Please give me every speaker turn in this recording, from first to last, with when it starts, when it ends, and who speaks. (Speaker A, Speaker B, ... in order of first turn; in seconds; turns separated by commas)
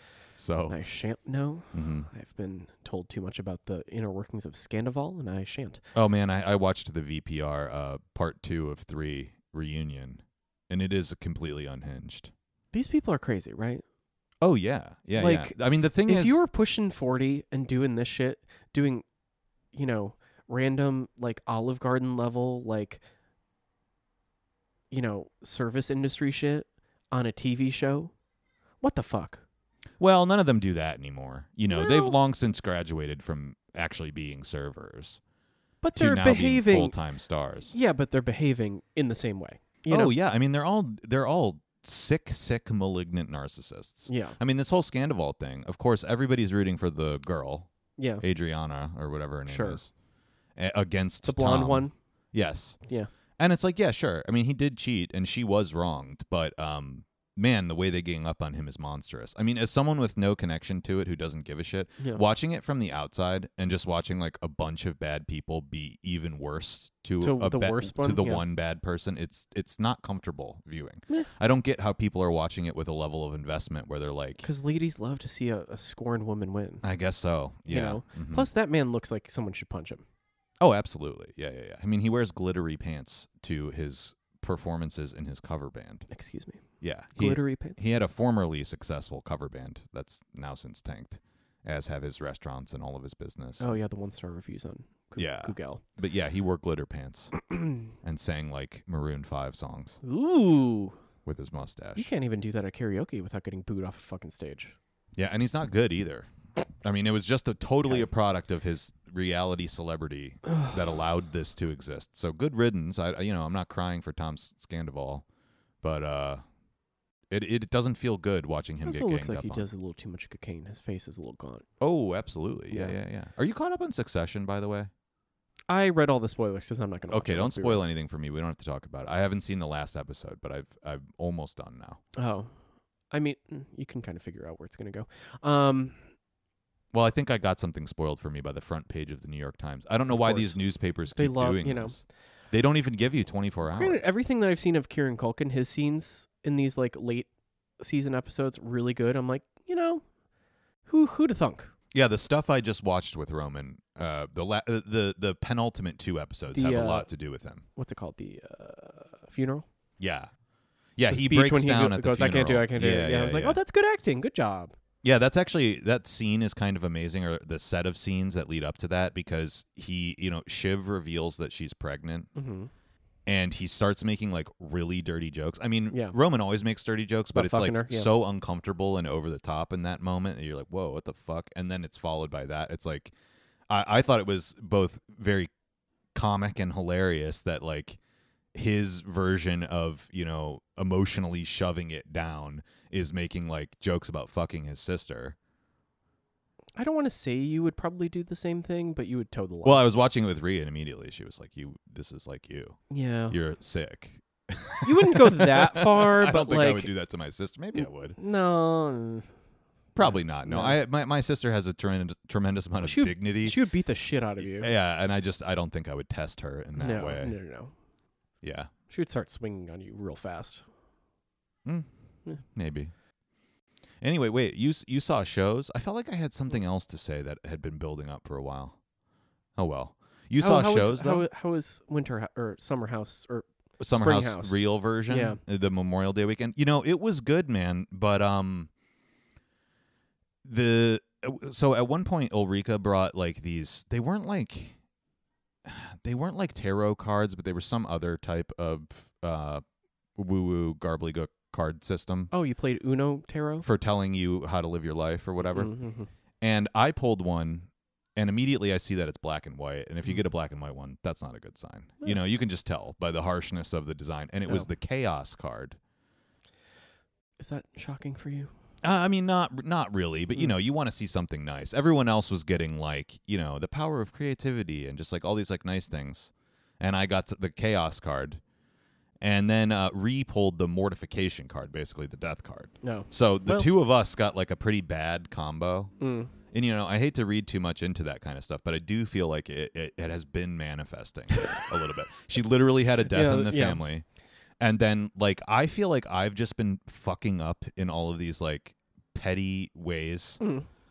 Speaker A: 0.4-0.8, Speaker B: 0.7-5.8, Speaker A: 1.7-2.1, Speaker A: 5.9-12.3, Speaker B: 12.7-13.8, Speaker A: 14.4-16.4, Speaker B: 15.2-19.0, Speaker B: 19.7-23.0, Speaker B: 24.9-28.1, Speaker B: 28.8-29.4, Speaker A: 30.0-35.2, Speaker B: 31.7-32.1, Speaker B: 35.8-37.0, Speaker A: 36.0-37.7, Speaker B: 37.7-40.1, Speaker A: 39.9-47.7, Speaker B: 44.1-44.4, Speaker B: 48.0-48.2, Speaker A: 48.2-49.9, Speaker B: 49.5-49.8, Speaker A: 50.5-52.8, Speaker B: 51.2-51.9, Speaker A: 53.4-74.5, Speaker B: 67.2-68.4, Speaker B: 74.4-76.8, Speaker A: 76.8-78.5, Speaker B: 77.7-80.0, Speaker A: 80.6-86.0, Speaker B: 86.1-86.6, Speaker A: 86.8-93.7, Speaker B: 87.2-87.8, Speaker B: 93.6-95.8, Speaker A: 95.2-97.4, Speaker B: 97.5-97.8, Speaker A: 98.0-100.0, Speaker B: 100.0-101.0, Speaker A: 101.2-102.1, Speaker B: 102.0-104.8, Speaker A: 105.2-106.3, Speaker A: 106.8-115.2, Speaker B: 110.5-110.7, Speaker A: 115.8-116.4, Speaker A: 117.3-119.7, Speaker B: 118.8-121.6, Speaker A: 121.8-124.9, Speaker B: 122.7-123.0, Speaker B: 125.7-127.8, Speaker A: 127.1-132.0, Speaker B: 132.2-132.5, Speaker B: 133.1-136.0, Speaker A: 136.9-144.0, Speaker B: 140.1-140.6, Speaker B: 141.1-142.0, Speaker B: 143.6-147.3, Speaker B: 147.8-150.0, Speaker B: 150.9-151.7, Speaker A: 151.9-157.6, Speaker B: 156.5-157.1, Speaker B: 157.8-159.7, Speaker A: 160.0-160.3, Speaker A: 161.0-163.6, Speaker B: 161.1-164.7, Speaker A: 165.0-172.3, Speaker B: 172.3-172.7, Speaker A: 173.2-183.1, Speaker B: 175.9-176.2, Speaker B: 177.3-178.1, Speaker A: 183.7-185.5, Speaker A: 186.1-188.0, Speaker A: 188.5-195.3, Speaker B: 196.8-199.8, Speaker A: 199.6-202.8, Speaker B: 202.9-203.4, Speaker A: 203.3-208.2, Speaker B: 204.8-206.9, Speaker B: 207.7-209.3, Speaker A: 209.9-213.6, Speaker B: 210.0-210.8, Speaker B: 212.8-214.7, Speaker A: 214.4-217.3, Speaker B: 216.8-217.7, Speaker A: 218.4-218.7, Speaker B: 218.9-220.6, Speaker A: 222.5-222.9, Speaker A: 224.0-228.8, Speaker A: 229.6-231.3, Speaker B: 230.4-235.4, Speaker A: 233.8-238.7, Speaker A: 240.4-244.8, Speaker A: 245.6-249.6, Speaker A: 250.2-252.3, Speaker B: 252.3-253.7, Speaker A: 253.6-255.7, Speaker B: 255.5-256.1, Speaker A: 256.4-265.8, Speaker B: 267.4-268.5, Speaker A: 268.8-278.4, Speaker A: 279.2-285.9, Speaker B: 282.8-283.7, Speaker B: 286.0-286.3, Speaker A: 286.5-294.0, Speaker B: 291.3-291.7, Speaker B: 293.1-293.8, Speaker A: 294.6-300.4, Speaker B: 300.4-300.7